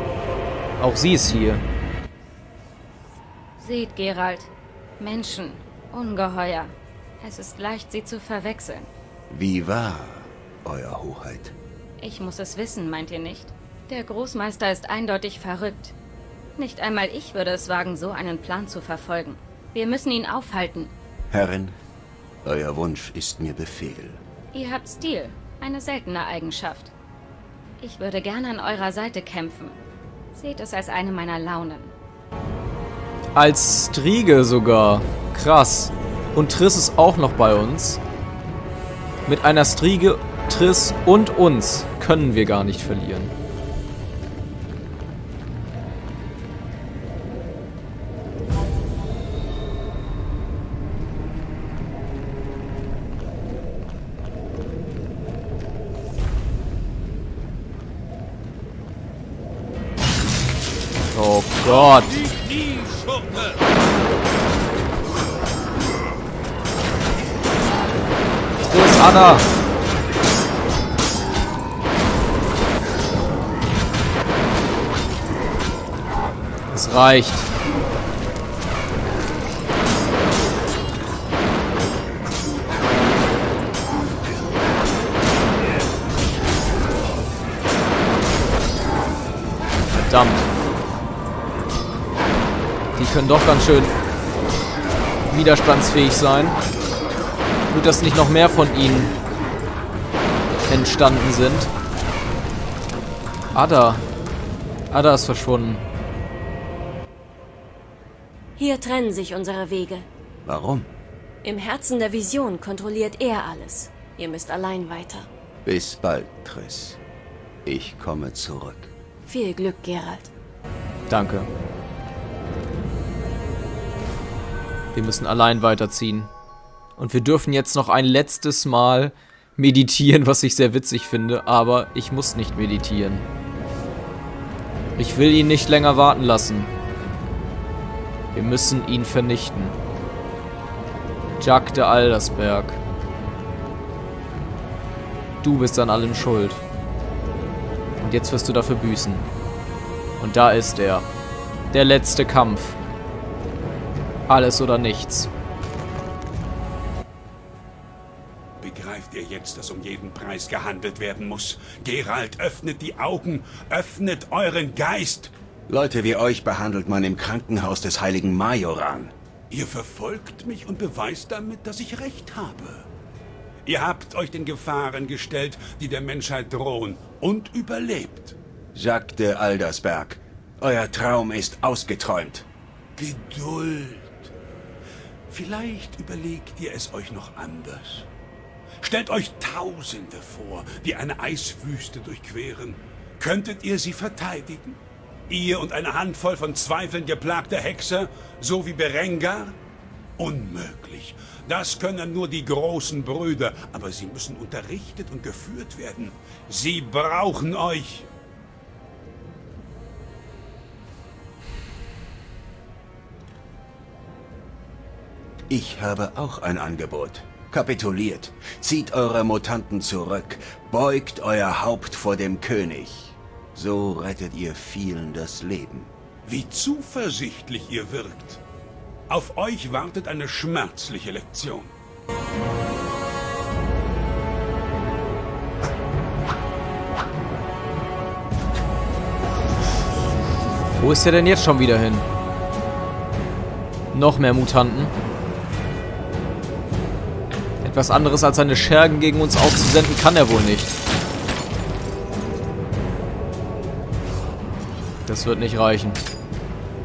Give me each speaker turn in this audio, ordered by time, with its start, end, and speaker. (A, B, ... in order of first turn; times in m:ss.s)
0:00.8-0:01.6 A
0:03.6-0:08.9 B
0:09.3-0:11.6 C
0:12.0-0:15.9 B
0:16.6-0:20.9 B
0:21.3-0:21.8 C
0:22.4-0:24.2 C
0:24.5-0:26.9 B
0:27.8-0:29.8 B
0:30.3-0:31.9 B
0:33.4-0:38.0 A
0:39.3-0:43.3 A
1:01.1-1:02.1 A
1:01.6-1:03.6 D
1:08.6-1:09.5 A
1:16.7-1:17.5 A
1:29.9-1:30.5 A
1:33.0-1:33.9 A
1:35.3-1:36.6 A
1:37.7-1:39.2 A
1:40.7-1:41.7 A
1:43.5-1:44.0 A
1:44.9-1:45.8 A
1:48.6-1:50.1 E
1:50.4-1:50.9 C
1:51.4-1:55.3 E
1:55.6-1:57.0 C
1:57.6-1:58.9 C
1:59.3-2:00.3 E
2:01.1-2:01.5 A
2:04.9-2:06.3 A
2:07.0-2:13.3 A
2:15.0-2:16.7 A
2:18.3-2:19.8 A
2:21.4-2:22.8 A
2:25.4-2:26.6 A
2:28.0-2:29.2 A
2:30.2-2:31.1 A
2:31.7-2:32.8 A
2:34.3-2:35.3 A
2:38.6-2:45.3 D
2:45.7-2:49.1 C
2:49.5-2:52.9 D
2:53.7-2:58.4 D
2:58.7-3:02.5 C
3:03.0-3:04.3 D
3:05.3-3:08.1 D
3:08.8-3:19.6 D
3:20.2-3:28.1 D
3:35.5-3:45.9 C
3:46.3-3:48.4 D
3:49.1-3:51.8 D
4:00.8-4:02.1 A
4:03.9-4:05.0 A
4:07.6-4:10.8 A
4:15.1-4:16.0 A